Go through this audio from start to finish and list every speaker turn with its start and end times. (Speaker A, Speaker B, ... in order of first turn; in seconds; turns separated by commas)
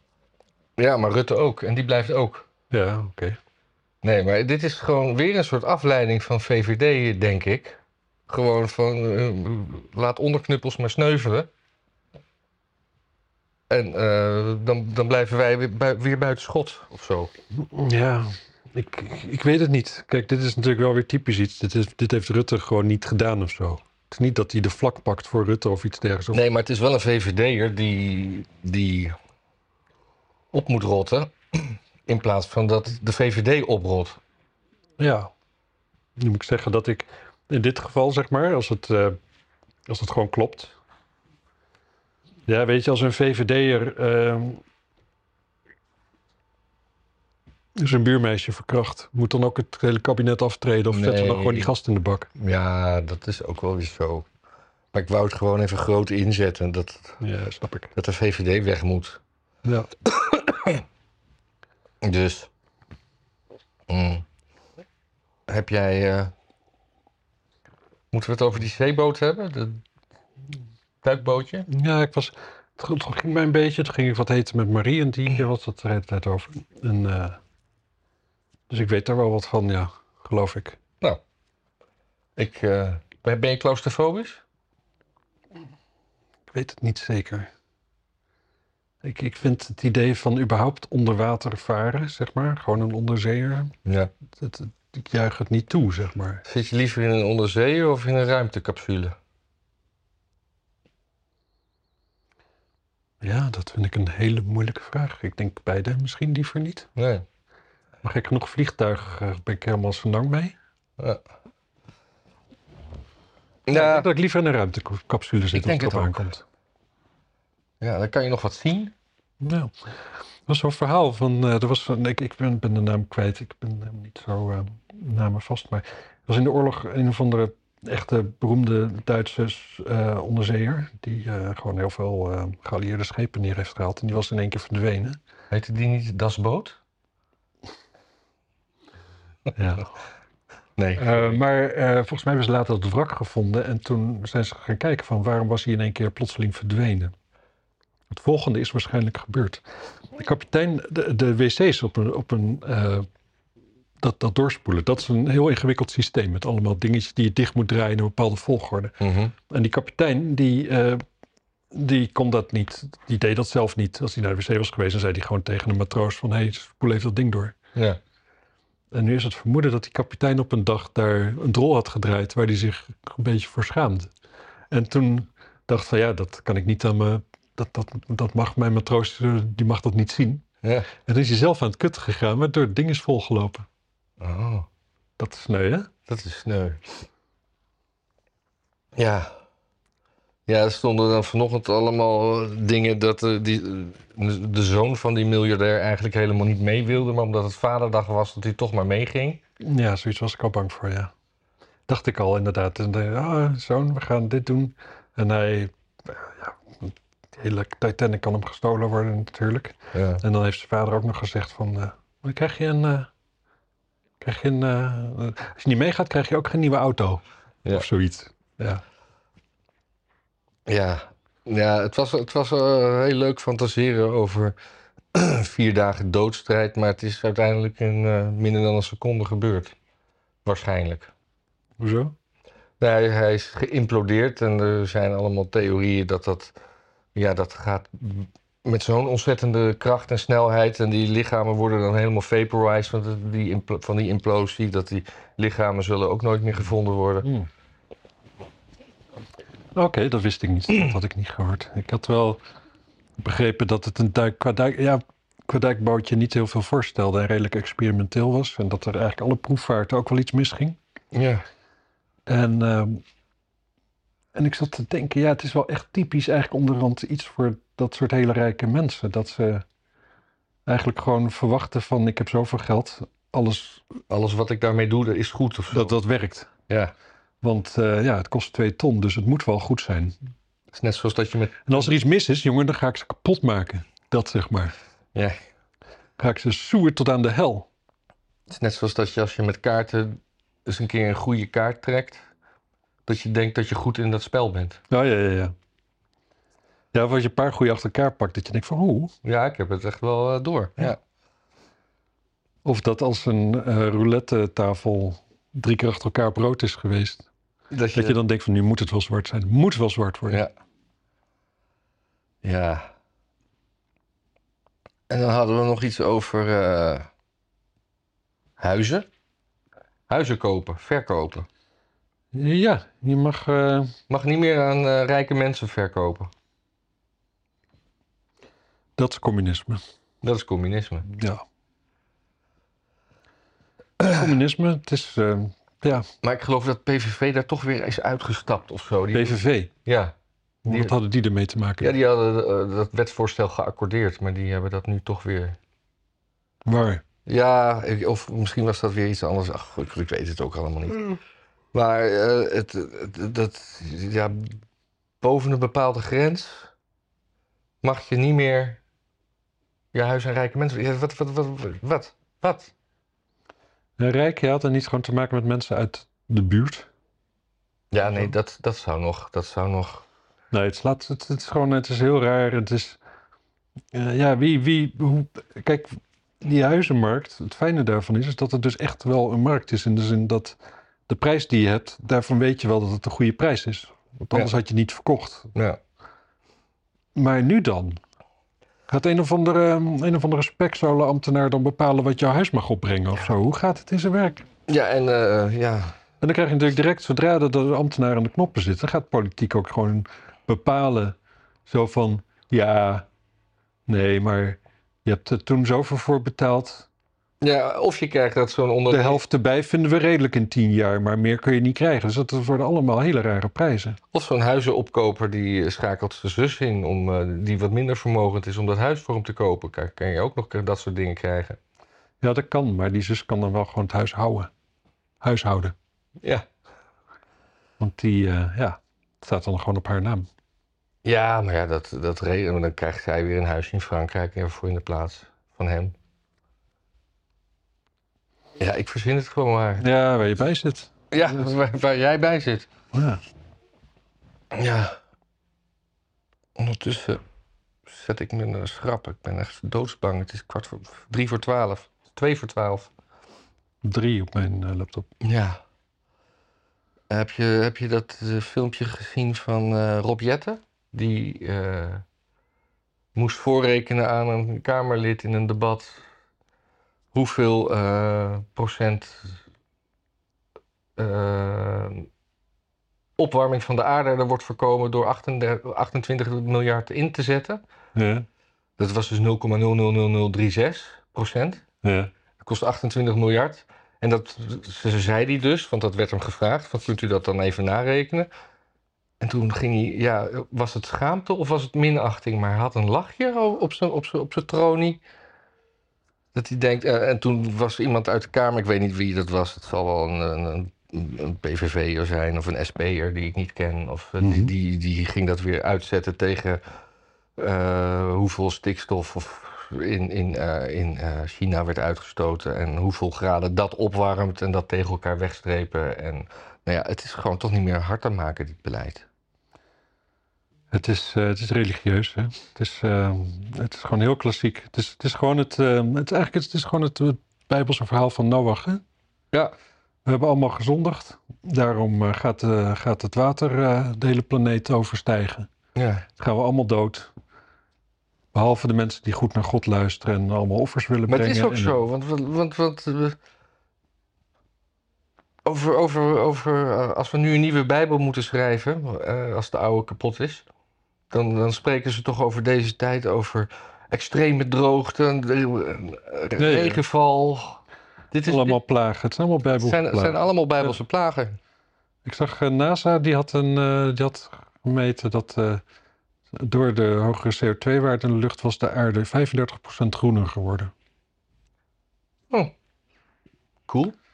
Speaker A: 0.8-2.5, Speaker B: 2.7-3.4, Speaker A: 4.0-11.5, Speaker A: 13.7-17.3, Speaker B: 17.5-26.4, Speaker A: 26.3-29.1, Speaker A: 30.5-34.2, Speaker B: 35.0-35.3, Speaker B: 36.2-39.2, Speaker B: 39.9-40.7, Speaker B: 42.5-44.6, Speaker B: 47.8-52.3, Speaker A: 50.9-51.7, Speaker A: 52.4-54.3, Speaker A: 54.9-57.2, Speaker B: 57.2-57.9, Speaker A: 57.9-59.2, Speaker B: 59.6-59.9, Speaker A: 60.1-60.8, Speaker A: 62.0-62.5, Speaker A: 63.9-64.2, Speaker A: 65.5-66.3, Speaker A: 68.1-69.8, Speaker A: 71.0-71.7, Speaker B: 71.7-77.4, Speaker B: 78.7-80.8, Speaker A: 82.4-84.4, Speaker B: 86.5-87.5, Speaker B: 89.0-93.7, Speaker A: 93.8-94.1, Speaker B: 94.3-96.4, Speaker A: 96.4-99.2, Speaker B: 103.2-106.9, Speaker A: 107.0-107.2, Speaker B: 108.0-110.5, Speaker A: 113.7-114.1, Speaker B: 113.7-116.4, Speaker A: 115.5-116.2, Speaker A: 117.8-118.9, Speaker B: 119.4-119.7, Speaker B: 120.5-135.2, Speaker A: 135.5-136.8, Speaker B: 139.5-139.9, Speaker A: 140.8-141.4, Speaker B: 140.9-147.1, Speaker B: 148.1-149.6, Speaker B: 150.1-153.1, Speaker B: 154.0-158.9, Speaker A: 159.0-159.3, Speaker B: 159.5-161.0, Speaker B: 161.7-167.5, Speaker B: 168.9-174.1, Speaker B: 174.7-180.4, Speaker A: 180.6-180.9, Speaker B: 181.0-183.7, Speaker A: 184.2-184.7, Speaker B: 185.2-185.9, Speaker A: 186.1-186.8, Speaker A: 188.9-189.3, Speaker A: 190.5-199.4, Speaker B: 199.6-201.1, Speaker B: 201.9-213.1, Speaker A: 209.9-210.2, Speaker B: 214.2-218.8, Speaker A: 220.7-224.5, Speaker A: 225.1-229.7, Speaker A: 230.4-231.1, Speaker B: 231.8-232.1, Speaker A: 232.8-236.5, Speaker A: 237.1-247.3, Speaker B: 247.2-247.5, Speaker B: 249.7-252.4, Speaker B: 253.2-260.8, Speaker A: 261.1-261.4, Speaker B: 262.2-263.0, Speaker B: 264.3-269.6, Speaker B: 270.6-273.8, Speaker A: 274.1-275.9, Speaker B: 275.7-276.5, Speaker A: 276.7-276.9, Speaker B: 277.4-280.1, Speaker A: 280.7-281.9, Speaker B: 281.6-284.7, Speaker B: 286.2-287.7, Speaker A: 288.5-292.2, Speaker A: 293.1-294.8, Speaker B: 294.9-295.5, Speaker B: 296.9-299.1, Speaker A: 299.2-301.0, Speaker B: 302.6-307.2, Speaker A: 307.7-308.2, Speaker B: 307.9-310.4, Speaker A: 312.4-312.9, Speaker A: 315.1-317.1, Speaker A: 318.6-319.1, Speaker A: 320.1-321.5, Speaker B: 322.3-323.9, Speaker A: 324.1-326.3, Speaker B: 329.0-329.8, Speaker A: 330.2-331.1, Speaker B: 331.1-331.4, Speaker B: 334.0-336.1, Speaker A: 336.2-340.1, Speaker B: 339.1-339.7, Speaker B: 340.6-341.9, Speaker A: 340.7-340.9, Speaker A: 341.8-345.6, Speaker B: 346.6-347.0, Speaker A: 347.2-351.2, Speaker A: 351.7-354.6, Speaker A: 355.2-356.7, Speaker A: 357.8-358.8, Speaker A: 359.9-362.7, Speaker B: 364.0-366.9, Speaker A: 367.9-370.0, Speaker B: 370.5-373.0, Speaker B: 373.9-380.6, Speaker B: 381.1-385.5, Speaker A: 385.5-385.8, Speaker B: 387.1-388.0, Speaker B: 388.9-394.4, Speaker A: 394.7-395.9, Speaker B: 396.2-401.1, Speaker B: 401.7-403.1, Speaker B: 403.9-406.9, Speaker A: 407.4-409.2, Speaker B: 408.9-414.0, Speaker A: 414.1-421.6, Speaker B: 422.2-424.5, Speaker B: 425.2-425.7, Speaker B: 427.8-430.3, Speaker A: 431.0-435.9, Speaker A: 438.6-439.9, Speaker B: 439.8-441.5, Speaker A: 441.1-442.7, Speaker B: 442.9-443.2, Speaker A: 444.5-444.9, Speaker A: 446.6-447.2, Speaker A: 447.9-452.9, Speaker B: 453.8-455.1, Speaker A: 455.2-455.6, Speaker A: 457.1-462.0, Speaker A: 463.1-466.0, Speaker A: 467.1-469.4, Speaker A: 471.0-472.1, Speaker A: 473.2-477.6, Speaker B: 477.9-478.2, Speaker A: 478.8-481.6, Speaker B: 481.8-482.1, Speaker A: 482.4-488.3, Speaker A: 489.2-495.0, Speaker A: 496.3-506.6, Speaker B: 504.2-504.5, Speaker A: 507.4-519.0, Speaker B: 520.7-528.8, Speaker B: 530.0-535.5, Speaker A: 535.7-536.0, Speaker B: 536.2-537.1, Speaker B: 538.3-541.8, Speaker A: 541.1-543.2, Speaker A: 545.4-550.5, Speaker A: 551.1-557.6, Speaker B: 556.4-556.8, Speaker A: 558.1-558.6, Speaker B: 558.3-560.2, Speaker A: 559.6-561.4, Speaker B: 562.0-565.6, Speaker B: 566.3-570.7, Speaker A: 573.7-573.9